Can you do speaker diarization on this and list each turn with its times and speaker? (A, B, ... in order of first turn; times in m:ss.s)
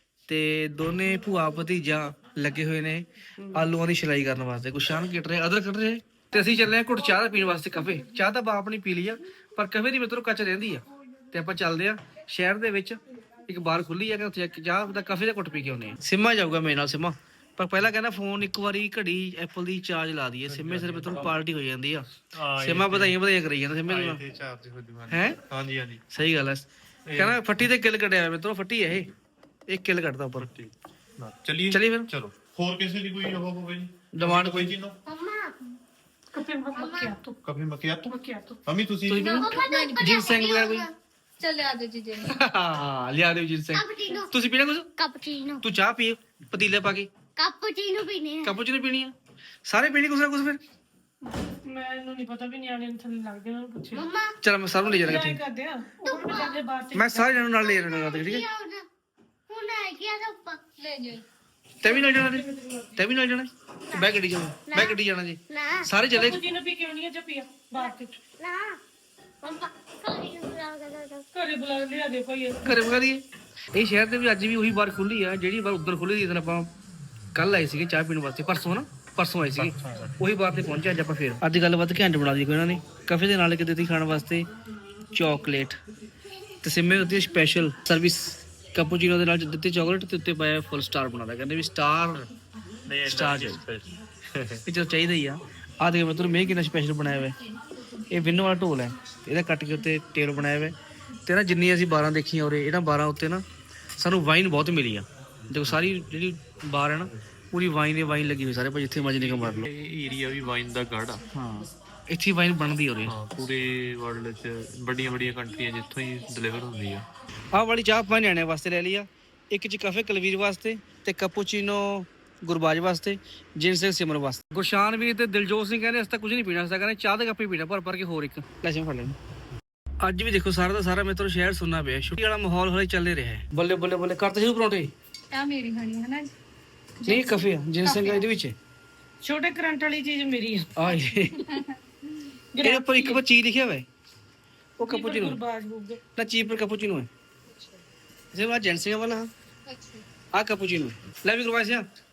0:00.3-0:22.0 A
0:20.4-0:21.3 B
0:22.3-0:23.2 B
0:22.6-0:24.2 A
0:23.8-0:26.0 B
0:25.1-0:25.4 A
0:26.1-0:26.6 A
0:27.1-0:27.4 B
0:27.2-0:29.1 A
0:29.7-0:30.5 A
0:30.4-0:35.0 B
0:31.7-0:32.1 A
0:34.2-0:34.7 A
0:35.1-0:35.5 C
0:36.3-0:37.4 D
0:36.8-0:37.1 C
0:37.4-0:38.1 B
0:38.1-0:38.6 D
0:38.7-0:39.2 B
0:39.1-0:40.9 A
0:39.1-0:40.2 E
0:39.2-0:40.9 C
0:41.4-0:42.4 E
0:42.3-0:44.9 A
0:43.7-0:44.3 C
0:45.0-0:45.6 C
0:45.6-0:47.1 A
0:47.4-0:48.6 C
0:48.4-0:49.1 A
0:49.7-0:50.6 A
0:51.3-0:54.1 D
0:53.9-0:54.3 C
0:54.4-0:55.4 A
0:55.0-0:57.5 D
0:56.0-0:56.6 C
0:57.0-0:58.5 A
0:57.6-0:58.8 C
0:59.5-1:00.6 C
1:00.8-1:01.2 E
1:01.8-1:02.4 A
1:01.8-1:02.9 D
1:03.0-1:06.4 A
1:03.9-1:05.0 C
1:05.5-1:05.8 C
1:06.1-1:08.2 D
1:08.4-1:08.8 C
1:09.4-1:11.2 C
1:11.3-1:12.7 D
1:12.6-1:13.2 A
1:13.7-1:16.7 A
1:17.4-1:24.5 A
1:19.6-1:20.2 B
1:25.1-1:25.8 A
1:26.6-1:32.3 A
1:32.9-1:34.6 B
1:33.1-1:33.6 A
1:34.7-1:37.4 A
1:38.1-1:40.8 A
1:41.3-1:43.4 A
1:44.0-1:49.7 A
1:45.6-1:45.9 B
1:49.2-1:51.2 B
1:51.4-1:53.2 A
1:53.0-1:57.1 B
1:57.5-2:09.2 A
2:10.0-2:14.9 A
2:15.3-2:16.3 E
2:17.0-2:18.3 E
2:17.1-2:18.6 A
2:19.2-2:20.7 D
2:20.8-2:21.4 A
2:21.5-2:21.8 E
2:22.6-2:23.2 D
2:22.6-2:23.8 A
2:24.8-2:25.4 A
2:24.8-2:26.0 D
2:26.2-2:27.1 A
2:28.3-2:29.3 A
2:29.7-2:30.0 E
2:30.4-2:31.9 A